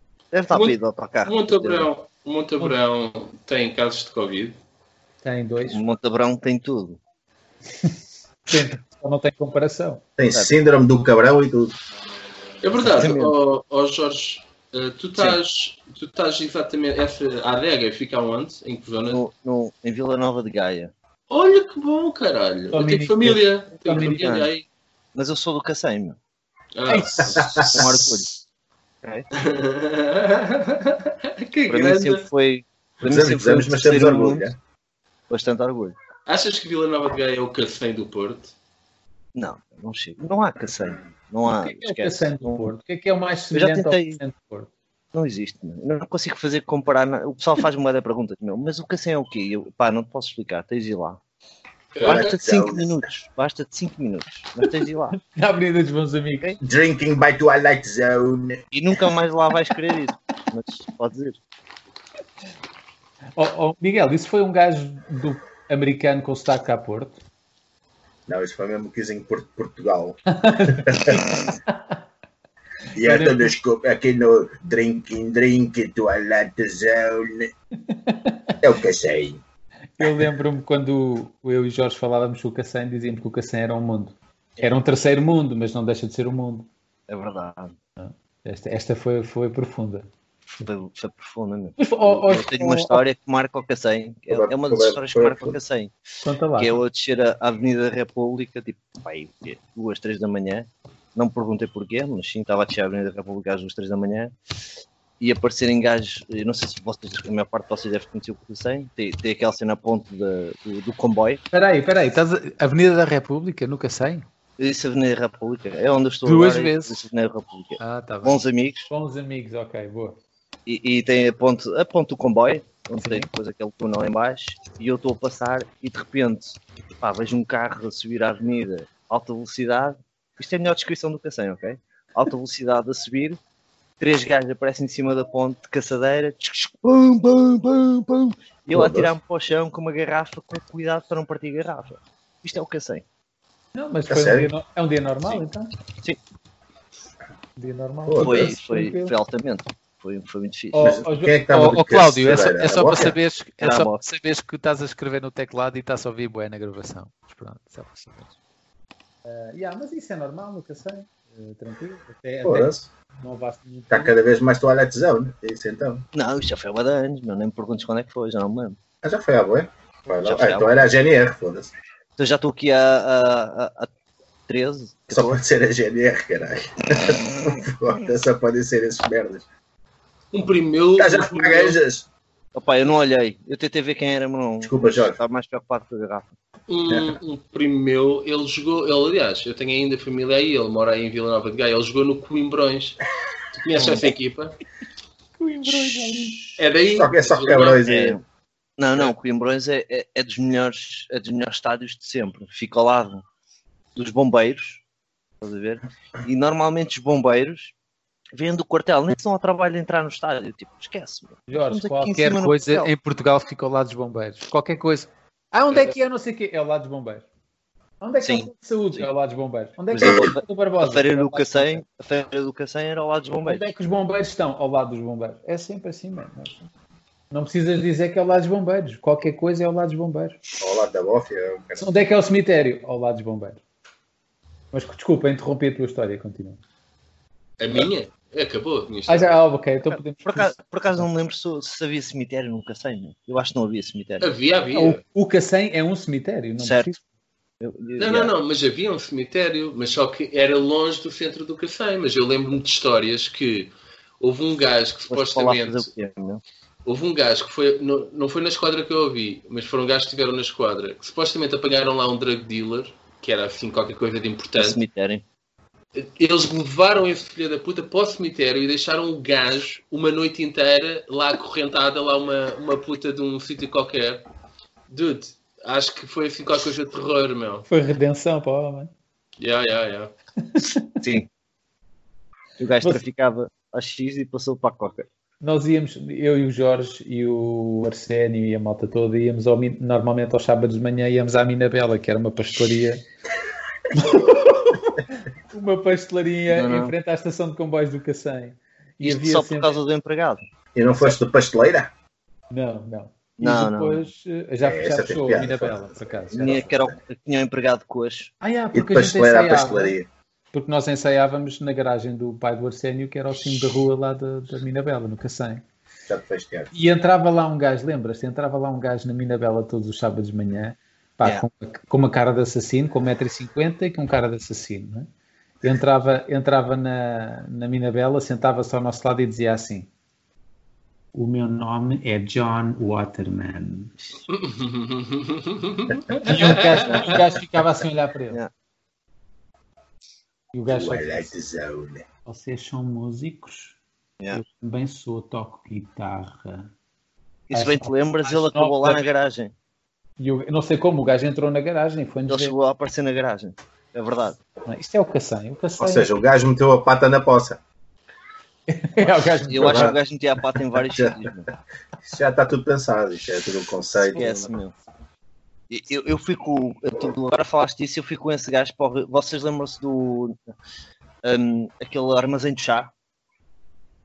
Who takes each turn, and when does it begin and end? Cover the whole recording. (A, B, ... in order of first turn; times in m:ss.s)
0:00.3-0:01.9 A
0:00.5-0:04.6 B
0:05.2-0:05.8 C
0:05.7-0:07.0 A
0:08.5-0:10.0 C
0:10.2-0:11.8 D
0:12.6-0:19.2 B
0:12.8-0:13.4 A
0:19.1-0:20.9 A
0:21.3-0:24.7 B
0:22.7-0:24.3 C
0:24.0-0:24.5 A
0:25.1-0:26.2 A
0:26.8-0:28.1 B
0:26.9-0:27.9 C
0:27.3-0:27.8 D
0:27.7-0:28.3 A
0:29.3-0:32.2 B
0:31.7-0:34.5 A
0:33.0-0:34.6 D
0:35.3-0:35.9 A
0:36.3-0:38.5 B
0:39.4-0:42.7 A
0:41.4-0:44.7 C
0:43.5-0:44.2 A
0:45.1-0:51.2 A
0:51.9-0:52.3 B
0:52.0-0:55.2 A
0:52.0-0:53.1 D
0:55.1-0:56.6 C
0:56.6-0:58.6 D
0:58.7-1:01.4 A
1:03.4-1:07.2 C
1:08.3-1:11.3 D
1:10.3-1:12.0 C
1:12.9-1:13.5 C
1:12.9-1:17.5 D
1:17.9-1:18.6 C
1:18.6-1:19.4 D
1:20.0-1:26.7 C
1:27.1-1:27.8 A
1:28.0-1:30.1 C
1:30.5-1:35.9 A
1:31.8-1:33.0 C
1:34.3-1:35.6 D
1:36.2-1:36.8 C
1:36.6-1:44.4 A
1:45.2-1:51.4 A
1:51.5-1:54.2 C
1:54.6-1:58.9 A
1:56.2-1:57.0 C
1:57.8-2:00.2 C
2:00.7-2:13.4 A
2:03.0-2:03.3 C
2:14.0-2:23.0 A
2:18.7-2:19.1 D
2:23.7-2:25.7 C
2:24.1-2:24.5 D
2:27.6-2:29.1 C
2:28.1-2:28.6 D
2:28.2-2:31.0 A
2:30.7-2:38.3 C
2:30.8-2:33.2 D
2:33.6-2:34.0 A
2:39.2-2:44.2 C
2:42.4-2:42.9 D
2:43.9-2:46.0 D
2:46.1-2:48.8 A
2:49.0-2:51.7 D
2:50.2-2:50.8 A
2:52.2-2:53.9 A
2:54.5-2:55.4 A
2:55.1-2:59.4 D
3:00.3-3:01.8 B
3:01.0-3:02.1 D
3:02.6-3:06.3 A
3:04.6-3:05.2 D
3:06.7-3:13.0 B
3:13.6-3:14.6 B
3:13.8-3:14.1 A
3:15.4-3:16.6 C
3:16.6-3:17.9 B
3:17.0-3:18.2 D
3:17.9-3:18.2 A
3:18.8-3:23.2 A
3:24.0-3:24.8 A
3:25.4-3:27.7 A
3:28.3-3:32.9 A
3:31.5-3:37.3 C
3:38.0-3:41.8 C
3:38.2-3:39.1 A
3:39.9-3:43.7 A
3:40.0-3:40.3 D
3:43.4-3:46.6 C
3:47.3-3:50.4 C
3:50.6-3:51.8 D
3:51.8-3:53.6 C
3:54.7-3:56.6 C
3:57.6-3:59.3 B
3:59.1-4:01.1 C
3:59.9-4:04.3 A
4:04.2-4:05.0 B
4:04.7-4:07.0 C
4:06.6-4:06.9 A
4:07.6-4:08.3 A
4:08.0-4:15.9 B
4:15.1-4:16.4 A
4:16.8-4:24.8 B
4:24.6-4:25.2 A
4:25.9-4:34.2 B
4:34.9-4:37.7 B
4:37.7-4:38.9 C
4:39.4-4:40.1 B
4:40.5-4:40.9 C
4:41.0-4:41.3 A
4:42.6-4:45.1 A
4:45.4-4:53.0 C
4:53.9-4:59.8 C
4:56.5-4:56.9 A
4:59.0-5:00.4 A
5:00.8-5:01.9 D
5:02.5-5:06.7 C
5:03.4-5:04.1 A
5:04.6-5:06.9 D
5:06.4-5:08.3 A
5:08.4-5:10.0 C
5:08.7-5:10.1 D
5:10.5-5:15.6 C
5:16.1-5:16.7 D
5:16.7-5:25.1 C
5:25.6-5:29.9 C
5:31.1-5:33.9 C
5:34.3-5:37.1 B
5:36.2-5:38.4 C
5:36.8-5:37.2 A
5:40.5-5:41.3 C
5:40.7-5:42.0 D
5:42.2-5:43.8 C
5:44.3-5:46.7 C
5:47.5-5:49.5 A
5:47.5-5:49.1 C
5:50.2-5:52.6 C
5:52.3-5:54.4 A
5:54.7-5:56.1 C
5:55.8-5:57.6 D
5:58.7-5:59.9 C
5:59.5-6:01.5 A
5:59.6-6:00.0 D
6:00.8-6:01.2 D
6:02.0-6:04.5 D
6:04.1-6:04.7 A
6:05.7-6:10.4 A
6:11.2-6:12.9 A